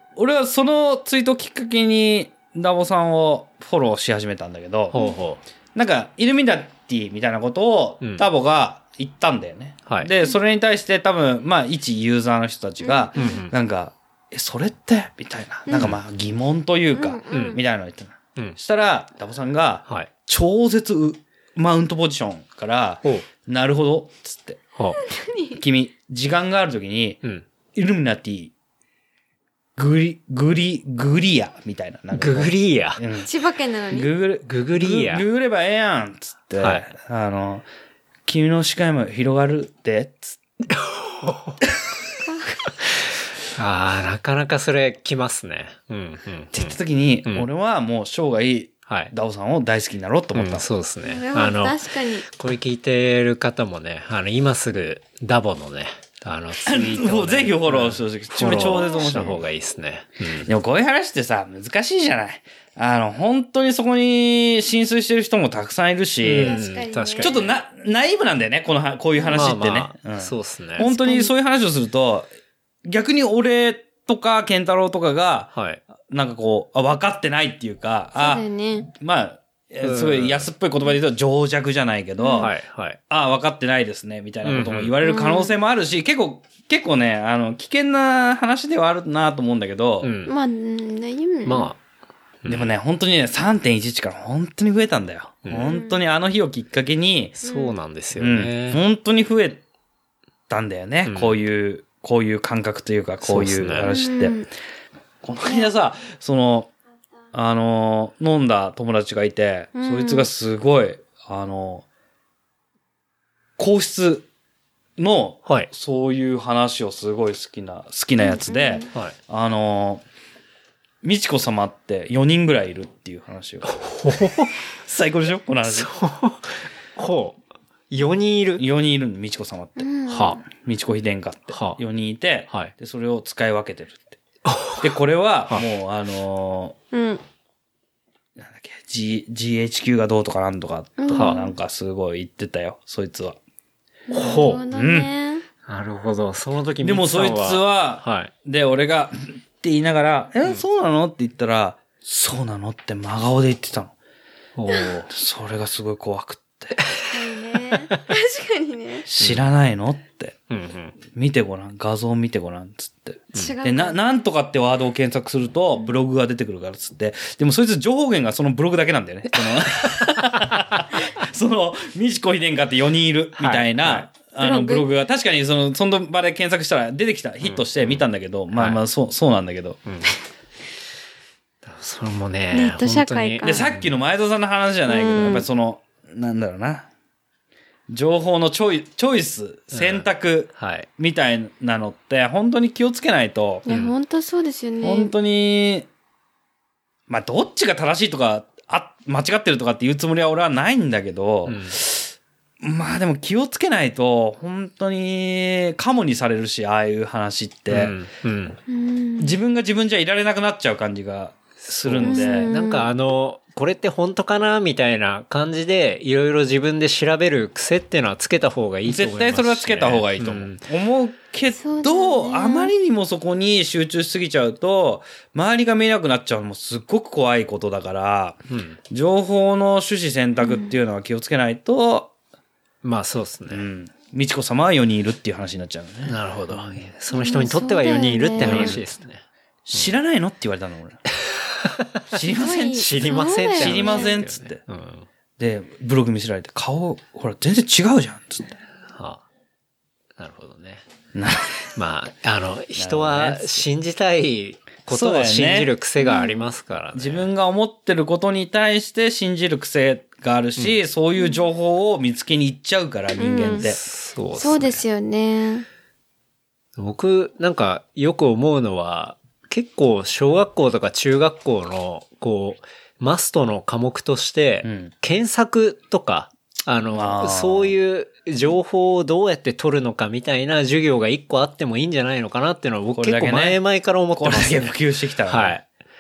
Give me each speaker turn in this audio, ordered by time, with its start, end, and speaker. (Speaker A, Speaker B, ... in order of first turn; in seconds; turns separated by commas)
Speaker A: 0.2-4.9, Speaker B: 4.9-5.4, Speaker A: 5.8-24.6, Speaker B: 8.0-8.3, Speaker B: 9.9-10.1, Speaker C: 12.8-13.4, Speaker B: 13.2-13.5, Speaker B: 15.7-16.0, Speaker C: 16.9-17.6, Speaker B: 17.3-17.6, Speaker C: 25.0-25.6, Speaker A: 25.6-27.2, Speaker A: 27.8-28.5, Speaker A: 29.8-33.3, Speaker B: 32.1-33.0, Speaker C: 33.2-34.1, Speaker A: 33.9-37.7, Speaker B: 34.5-35.2, Speaker B: 36.6-36.9, Speaker A: 38.3-40.4, Speaker B: 40.8-41.6, Speaker C: 42.2-42.6, Speaker B: 43.5-47.5, Speaker A: 46.5-50.7, Speaker B: 48.9-49.1, Speaker B: 50.4-60.5, Speaker C: 51.0-52.3, Speaker A: 56.7-59.4, Speaker C: 58.4-59.4, Speaker A: 60.5-66.6, Speaker B: 66.2-67.5, Speaker C: 66.3-67.5, Speaker A: 67.2-72.3, Speaker B: 69.3-70.8, Speaker C: 70.8-71.3, Speaker A: 72.8-82.5, Speaker B: 75.5-75.8, Speaker C: 78.2-78.9, Speaker B: 79.8-80.5, Speaker C: 82.2-82.5, Speaker B: 82.4-83.0, Speaker A: 83.1-90.1, Speaker B: 84.4-85.0, Speaker C: 85.0-85.6, Speaker B: 90.0-90.3, Speaker C: 90.3-91.7, Speaker B: 91.5-91.8, Speaker B: 92.4-92.7, Speaker A: 92.5-97.4, Speaker B: 95.5-95.7, Speaker C: 95.6-96.0, Speaker C: 97.4-97.8, Speaker B: 97.4-98.8, Speaker A: 98.2-99.6, Speaker A: 100.5-104.4, Speaker B: 101.1-101.4, Speaker B: 103.2-103.9, Speaker C: 103.8-104.5, Speaker A: 105.2-106.7, Speaker C: 105.5-105.7, Speaker A: 107.3-111.8, Speaker C: 109.8-110.3, Speaker A: 113.6-114.3, Speaker A: 115.0-120.0, Speaker C: 118.2-118.9, Speaker A: 121.0-125.9, Speaker B: 123.7-124.5, Speaker B: 125.7-128.6, Speaker A: 128.6-129.9, Speaker C: 129.8-130.4, Speaker B: 130.1-130.4, Speaker A: 130.4-134.2, Speaker B: 131.5-131.8, Speaker B: 134.4-134.9, Speaker A: 134.8-136.8, Speaker C: 136.9-137.2, Speaker A: 138.4-143.4, Speaker C: 141.0-141.5, Speaker B: 141.1-141.4, Speaker C: 144.1-145.4, Speaker B: 144.1-144.6, Speaker A: 144.7-145.1, Speaker B: 145.7-148.3, Speaker A: 146.8-153.9, Speaker B: 154.6-155.1, Speaker A: 155.0-156.8, Speaker B: 156.8-157.1, Speaker C: 157.1-159.1, Speaker A: 159.1-160.4, Speaker B: 159.2-159.4, Speaker B: 160.5-161.0, Speaker A: 161.1-179.8, Speaker C: 163.3-164.0, Speaker B: 169.6-170.8, Speaker B: 173.4-174.1, Speaker C: 174.4-174.9, Speaker B: 177.4-178.8, Speaker B: 179.9-180.1, Speaker B: 181.7-183.9, Speaker C: 182.5-183.7, Speaker A: 183.4-186.9, Speaker C: 184.9-185.5, Speaker A: 187.9-193.6, Speaker B: 189.7-190.9, Speaker C: 193.7-195.1, Speaker B: 193.7-193.9, Speaker A: 194.8-195.9, Speaker A: 197.1-207.9, Speaker B: 201.5-201.8, Speaker B: 207.7-208.6, Speaker C: 208.7-209.4, Speaker A: 209.2-212.5, Speaker B: 211.6-220.6, Speaker C: 212.0-212.9, Speaker A: 218.8-232.1, Speaker C: 221.5-222.7, Speaker B: 228.5-228.8, Speaker C: 230.4-230.7, Speaker B: 232.8-233.7, Speaker A: 233.5-236.8, Speaker B: 236.1-240.0, Speaker C: 237.1-238.8, Speaker A: 238.4-238.8, Speaker A: 239.7-241.0, Speaker B: 241.1-242.1, Speaker A: 242.1-242.9, Speaker C: 242.3-244.1, Speaker B: 242.8-245.1, Speaker A: 243.6-244.6, Speaker A: 245.4-248.6, Speaker B: 248.9-249.2, Speaker B: 250.2-250.8, Speaker A: 251.1-251.7, Speaker B: 251.7-257.3, Speaker A: 252.8-253.7, Speaker A: 254.9-255.7, Speaker C: 256.0-256.4, Speaker A: 256.9-263.8, Speaker C: 263.2-263.7, Speaker B: 263.6-264.8, Speaker C: 264.4-265.7, Speaker B: 266.8-284.7, Speaker A: 274.6-274.9, Speaker A: 276.9-277.8, Speaker A: 282.9-283.6, Speaker A: 284.2-285.6, Speaker B: 285.3-285.6